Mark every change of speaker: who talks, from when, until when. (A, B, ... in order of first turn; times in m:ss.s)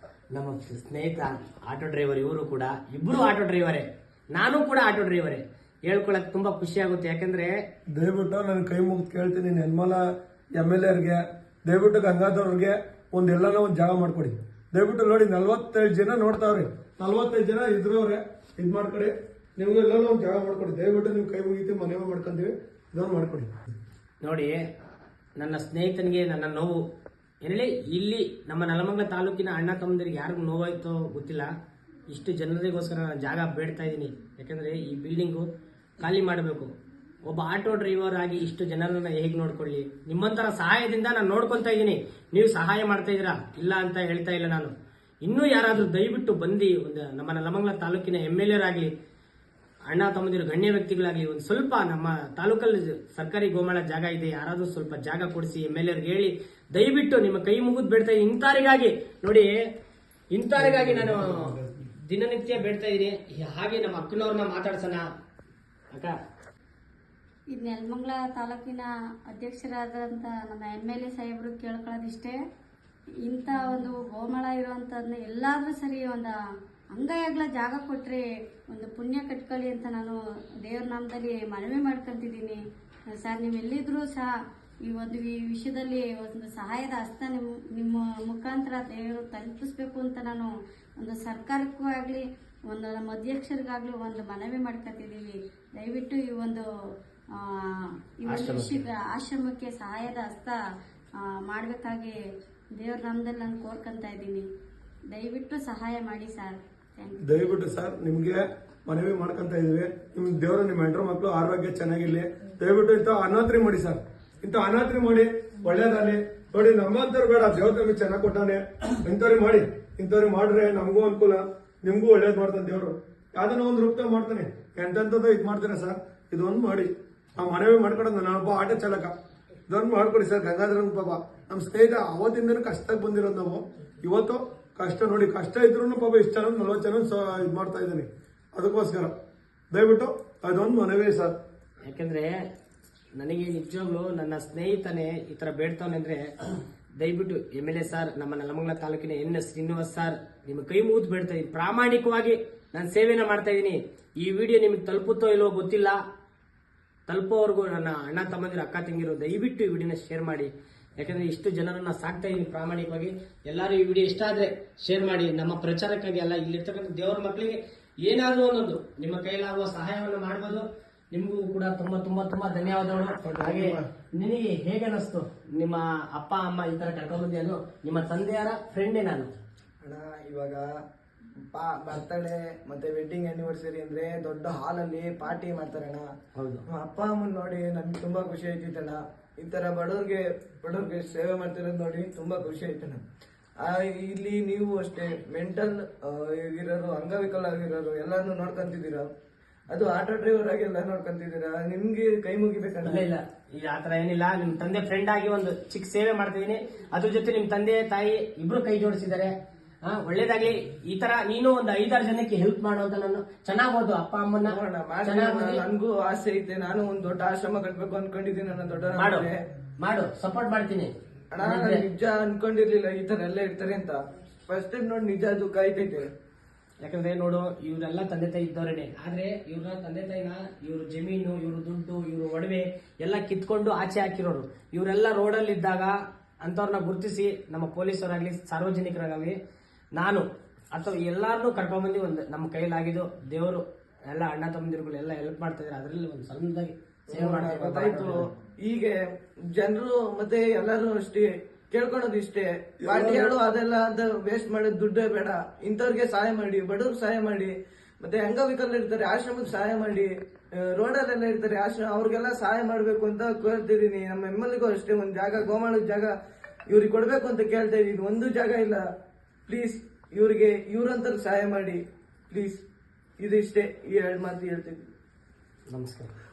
0:00.3-0:07.5 A
0:07.9-0:10.0 B
0:10.6-0:23.5 B
0:24.2-0:24.6 A
0:25.4-0:26.8 A
0:27.4-0:31.5 A
0:32.1-0:35.5 A
0:36.0-0:36.7 A
0:37.2-0:44.7 A
0:45.2-0:48.9 A
0:49.9-0:59.6 A
1:00.3-1:05.0 A
1:00.6-1:01.8 B
1:07.5-1:12.4 C
1:13.2-1:16.3 C
1:16.9-1:22.6 C
1:23.2-1:24.3 C
1:24.9-1:36.6 C
1:38.2-1:40.6 C
1:38.3-1:38.8 A
1:41.4-1:42.1 C
1:42.8-1:44.4 C
1:45.1-1:47.2 C
1:47.2-2:09.1 B
2:09.7-2:19.1 B
2:19.7-2:21.3 B
2:21.8-2:22.4 A
2:23.2-2:26.3 A
2:27.0-2:36.0 A
2:37.1-2:59.3 A
2:59.8-3:00.6 D
3:01.5-3:06.1 D
3:06.4-3:06.6 A
3:06.7-3:13.0 D
3:13.6-3:19.1 D
3:19.7-3:23.0 D
3:22.8-3:29.3 A
3:29.8-3:35.6 A
3:34.5-3:39.4 D
3:39.0-3:39.3 A
3:39.8-3:41.8 A
3:41.3-3:46.0 D
3:46.8-3:59.4 A
4:00.0-4:08.3 A
4:07.1-4:09.0 D
4:09.6-4:26.1 D
4:12.8-4:13.3 B
4:26.7-4:28.8 D
4:29.5-4:31.8 D
4:32.3-4:32.6 D
4:33.2-4:34.8 D
4:35.7-4:36.1 A